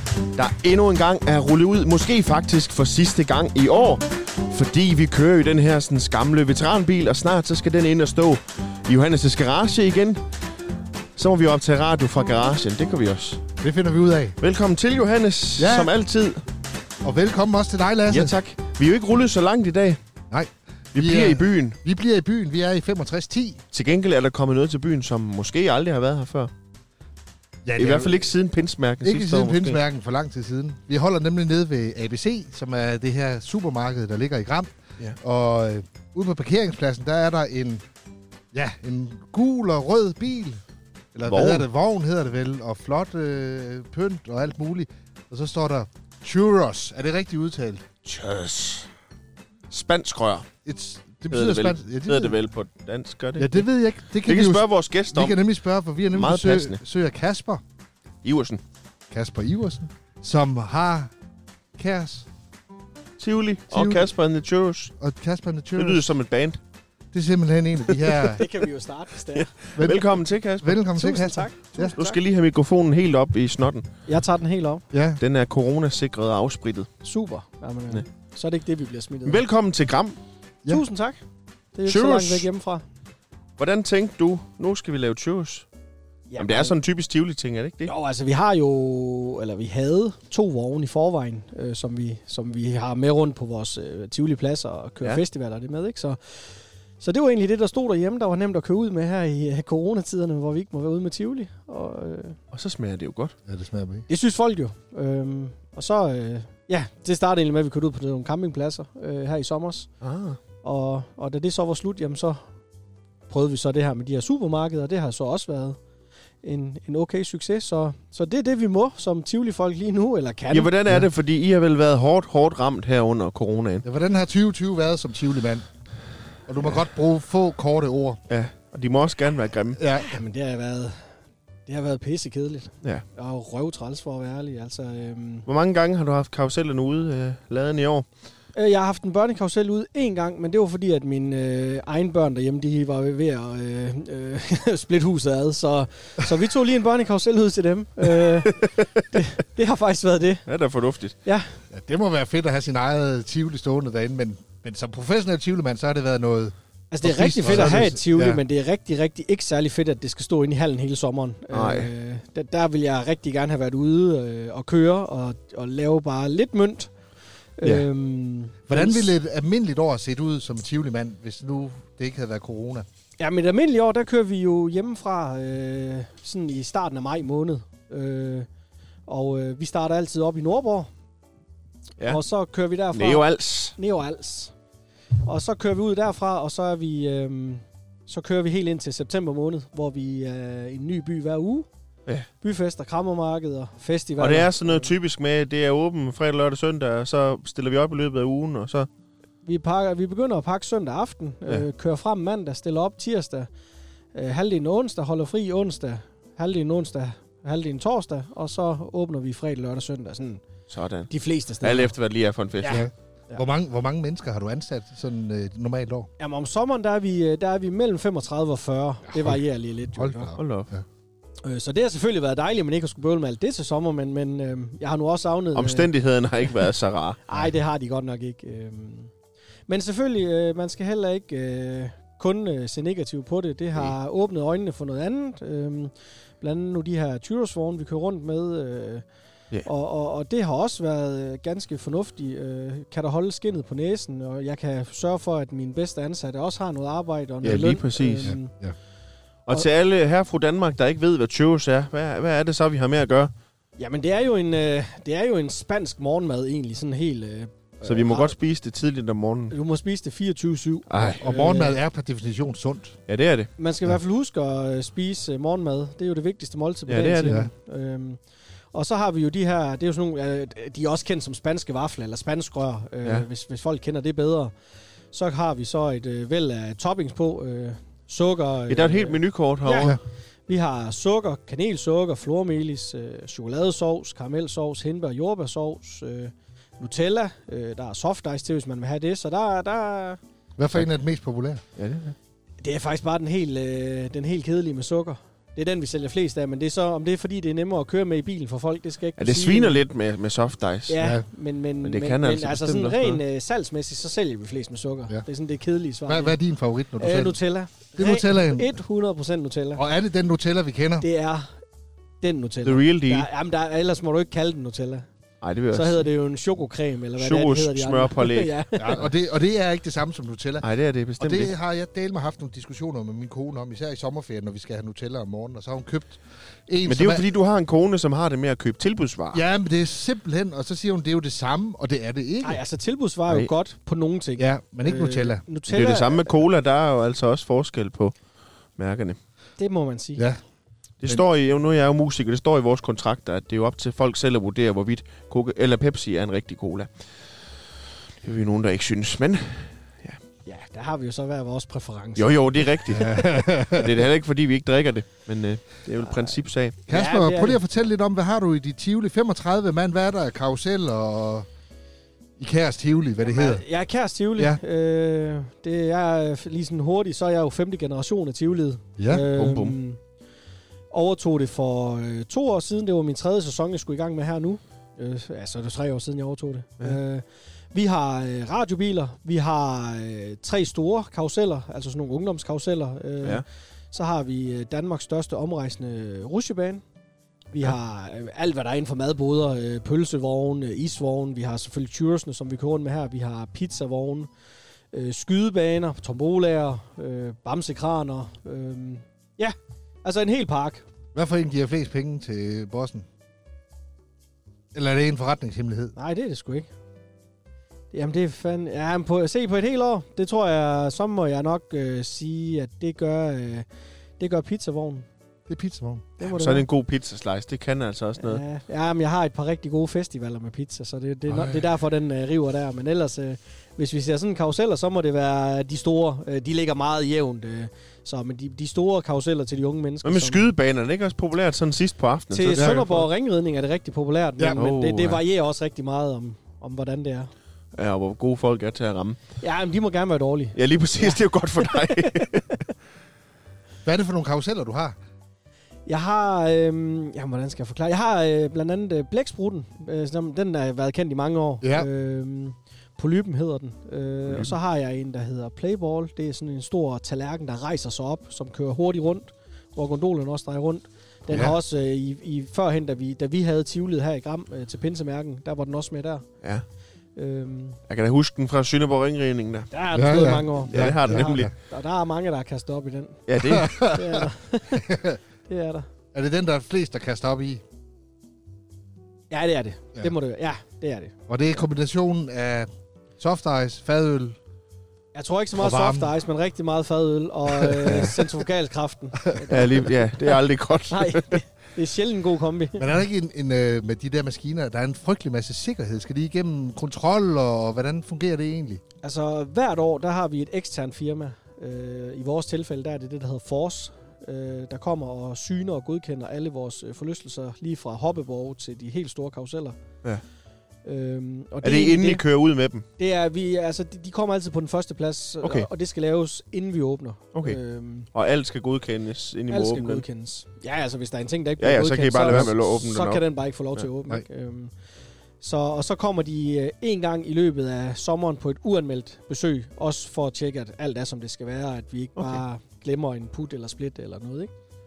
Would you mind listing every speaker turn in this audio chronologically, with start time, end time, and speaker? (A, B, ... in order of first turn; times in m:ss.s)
0:00.4-0:10.2 A
0:11.2-0:13.4 A
0:13.6-0:14.4 B
0:14.4-0:16.4 A
0:15.6-0:15.9 B
0:17.0-0:18.4 B
0:18.1-0:20.0 A
0:20.3-0:23.6 B
0:21.0-0:21.8 A
0:23.7-0:26.5 A
0:27.6-0:28.3 B
0:27.8-0:29.8 A
0:29.0-0:37.8 B
0:38.5-0:40.6 B
0:41.2-0:47.9 B
0:41.3-0:41.7 A
0:48.0-0:48.9 A
0:49.7-0:50.5 A
0:50.6-0:52.4 B
0:51.3-0:53.7 A
0:53.4-0:57.6 B
0:54.2-0:55.4 A
0:56.1-0:56.8 A
0:58.2-0:58.6 A
0:59.1-1:01.1 B
1:01.8-1:02.3 B
1:03.2-1:04.9 A
1:03.7-1:04.1 B
1:05.0-1:06.0 B
1:05.8-1:06.6 A
1:07.1-1:08.4 B
1:07.9-1:08.4 A
1:08.2-1:09.5 C
1:09.3-1:10.8 A
1:09.8-1:11.9 B
1:10.9-1:12.2 C
1:11.8-1:13.8 A
1:14.1-1:14.8 C
1:14.9-1:15.2 B
1:15.2-1:16.9 A
1:17.0-1:19.4 C
1:19.2-1:20.2 A
1:20.7-1:21.2 C
1:21.7-1:22.8 C
1:21.9-1:22.4 A
1:23.6-1:25.7 A
1:26.3-1:26.7 C
1:26.4-1:27.9 A
1:27.8-1:36.2 C
1:37.0-1:42.4 C
1:42.5-1:43.3 A
1:43.4-1:44.1 B
1:44.1-1:49.9 C
1:50.0-1:50.4 A
1:50.6-1:52.4 C
1:53.3-1:55.8 C
1:56.4-2:00.7 C
2:00.5-2:03.8 A
2:03.8-2:05.7 B
2:06.4-2:08.2 B
2:08.3-2:09.8 A
2:09.8-2:10.2 B
2:10.0-2:11.1 C
2:11.7-2:15.4 C
2:15.5-2:18.1 A
2:18.5-2:30.5 C
2:28.2-2:29.0 A
2:30.5-2:31.1 A
2:31.2-2:31.6 C
2:31.7-2:38.4 B
2:36.9-2:46.9 C
2:41.5-2:41.9 A
2:47.6-2:49.1 C
2:48.7-2:52.8 B
2:53.2-2:58.5 C
2:59.1-3:00.9 C
3:02.0-3:04.5 C
3:02.9-3:03.8 A
3:05.2-3:11.7 C
3:12.4-3:14.9 C
3:14.2-3:18.9 A
3:19.4-3:23.5 C
3:24.1-3:30.4 C
3:30.7-3:32.8 A
3:31.1-3:31.9 C
3:32.6-3:33.4 C
3:32.7-3:36.1 B
3:36.2-3:40.3 C
3:40.0-3:40.8 B
3:40.4-3:40.7 A
3:41.4-3:45.9 C
3:45.5-3:47.2 A
3:47.3-3:49.1 C
3:49.7-3:59.0 C
3:59.6-4:08.5 C
4:07.4-4:08.3 A
4:08.2-4:08.8 B
4:09.4-4:13.3 A
4:13.8-4:18.4 C
4:17.8-4:19.6 A
4:19.5-4:21.8 C
4:20.9-4:21.2 A
4:21.0-4:23.0 B
4:23.1-4:23.5 A
4:23.6-4:28.2 C
4:26.9-4:27.4 A
4:27.2-4:27.5 B
4:28.7-4:34.5 C
4:35.1-4:39.9 C
4:38.7-4:40.0 A
4:40.5-4:50.2 C
4:50.6-4:51.6 B
4:51.8-4:52.1 A
4:52.6-4:59.8 C
4:59.2-5:01.0 A
5:00.9-5:06.4 C
5:01.0-5:01.2 B
5:01.8-5:03.2 A
5:06.1-5:07.4 B
5:07.0-5:09.8 C
5:08.0-5:08.8 B
5:09.8-5:11.0 B
5:11.0-5:11.5 C
5:12.2-5:15.1 C
5:12.6-5:13.3 A
5:15.4-5:16.0 A
5:15.7-5:19.0 C
5:17.2-5:18.5 A
5:18.8-5:20.7 B
5:20.6-5:21.5 A
5:21.2-5:27.2 B
5:26.9-5:29.4 A
5:29.3-5:32.6 B
5:32.4-5:36.3 C
5:34.4-5:35.4 B
5:35.7-5:38.1 A
5:38.8-5:39.2 A
5:39.6-5:40.2 C
5:41.0-5:46.9 A
5:48.2-5:50.2 A
5:50.4-5:53.1 C
5:52.2-5:56.8 A
5:52.9-5:53.9 B
5:56.9-6:01.5 B
5:56.9-5:57.6 C
6:02.4-6:03.6 B
6:03.2-6:10.0 C
6:09.0-6:09.3 B
6:09.3-6:09.8 A
6:10.9-6:26.8 C
6:27.5-6:34.3 C
6:34.9-6:40.8 C
6:41.1-6:43.1 B
6:44.7-6:45.9 B
6:45.9-6:46.7 C
6:47.9-6:53.7 C
6:54.2-6:55.1 C
6:55.5-6:56.1 B
6:56.2-6:56.6 C
6:56.2-6:58.4 A
6:58.2-7:10.5 C
7:01.3-7:01.6 B
7:10.0-7:13.1 A
7:12.3-7:17.3 C
7:12.6-7:12.8 B
7:14.6-7:15.2 A
7:17.7-7:19.2 A
7:19.4-7:22.3 C
7:20.6-7:22.6 A
7:23.8-7:25.0 B
7:25.9-7:46.2 C
7:31.6-7:31.9 B
7:41.3-7:41.6 B
7:47.2-7:47.8 C
7:47.9-7:49.7 A
7:49.7-7:55.9 C
7:49.9-7:51.5 B
7:50.7-7:51.5 A
7:53.3-7:53.9 A
7:53.4-7:55.2 B
7:56.1-7:57.6 B
7:59.3-8:01.1 C
8:01.3-8:02.7 B
8:03.2-8:04.4 B
8:05.1-8:09.9 C
8:05.6-8:06.1 B
8:07.5-8:08.0 B
8:07.9-8:08.1 A
8:09.5-8:11.4 A
8:10.9-8:12.9 C
8:12.8-8:18.8 B
8:19.0-8:29.8 C
8:30.8-8:32.2 C
8:31.6-8:32.9 A
8:33.0-8:38.1 C
8:35.4-8:35.7 A
8:38.1-8:40.0 A
8:39.5-8:44.7 C
8:41.6-8:43.2 A
8:45.4-8:54.5 C